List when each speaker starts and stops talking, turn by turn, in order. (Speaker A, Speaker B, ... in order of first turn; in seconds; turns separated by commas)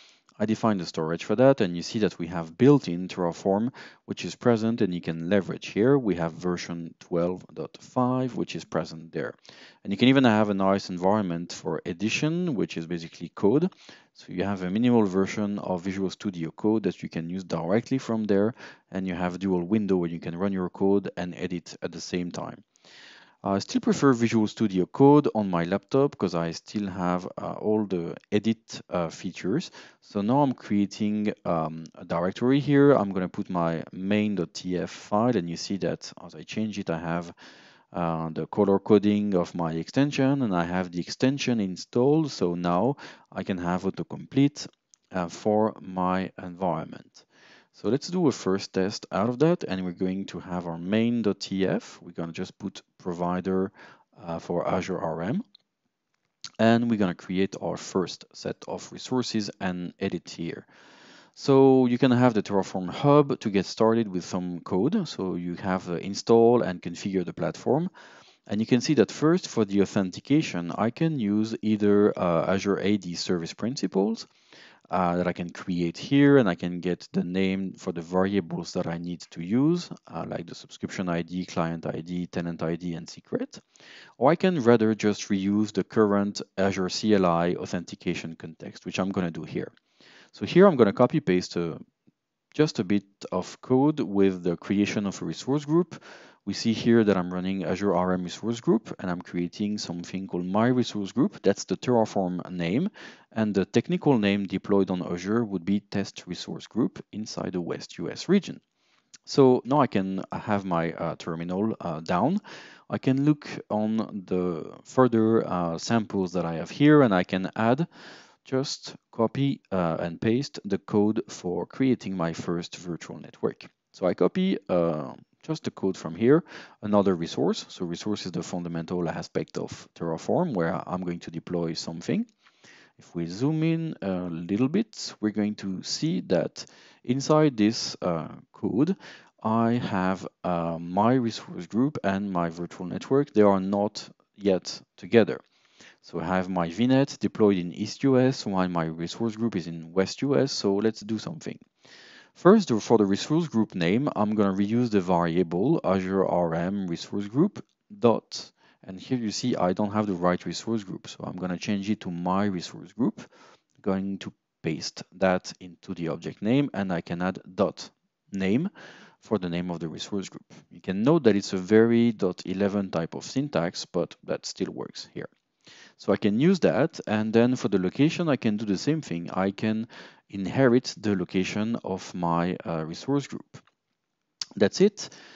Speaker A: 0.4-22.6, Speaker A: 23.4-37.3, Speaker A: 37.9-55.4, Speaker A: 56.6-60.7, Speaker A: 61.4-67.9, Speaker A: 68.5-74.3, Speaker A: 74.9-83.6, Speaker A: 84.2-89.7, Speaker A: 90.3-91.8, Speaker A: 92.5-108.6, Speaker A: 109.2-117.9, Speaker A: 118.4-132.3, Speaker A: 133.0-145.4, Speaker A: 146.0-151.6, Speaker A: 152.3-163.2, Speaker A: 163.8-168.7, Speaker A: 169.2-175.3, Speaker A: 176.0-183.6, Speaker A: 184.6-185.1